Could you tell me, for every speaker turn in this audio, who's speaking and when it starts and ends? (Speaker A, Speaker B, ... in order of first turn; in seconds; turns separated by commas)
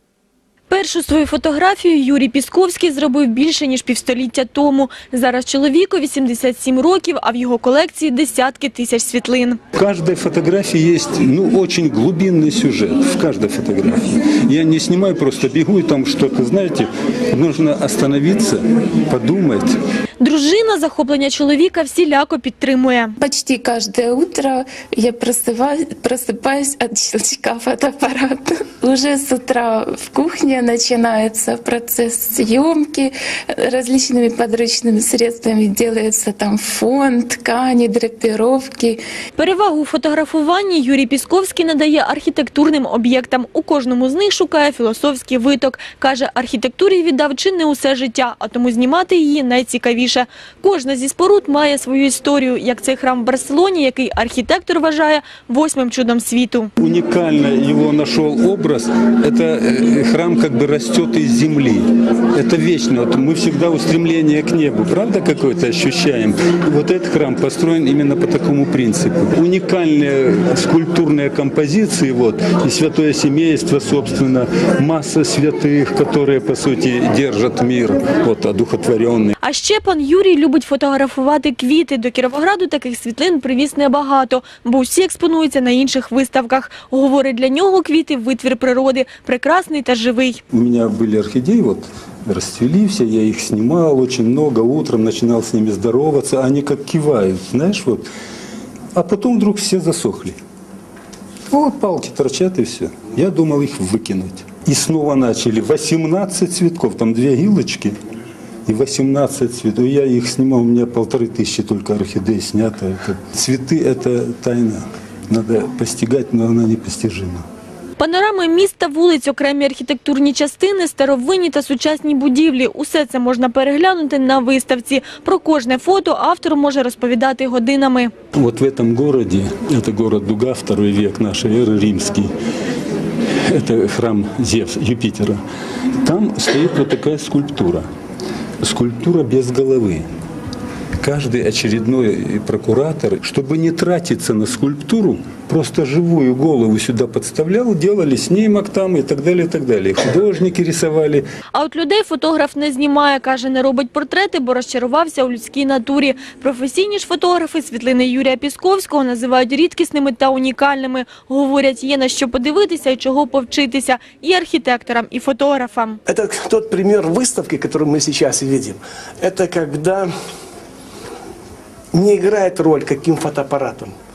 Speaker A: 0.7-9.6, Speaker B: 9.8-19.8, Speaker A: 20.2-23.1, Speaker C: 23.2-39.0, Speaker A: 39.4-56.7, Speaker B: 56.8-79.3, Speaker A: 79.4-90.4, Speaker B: 90.5-98.1, Speaker B: 98.9-100.4, Speaker B: 101.5-107.9, Speaker B: 108.7-117.4, Speaker A: 118.0-128.1, Speaker B: 128.3-132.3, Speaker B: 133.5-135.4, Speaker B: 136.0-137.8, Speaker B: 138.6-140.0, Speaker B: 141.0-151.2, Speaker A: 151.5-166.0, Speaker D: 166.1-170.1, Speaker D: 171.9-173.9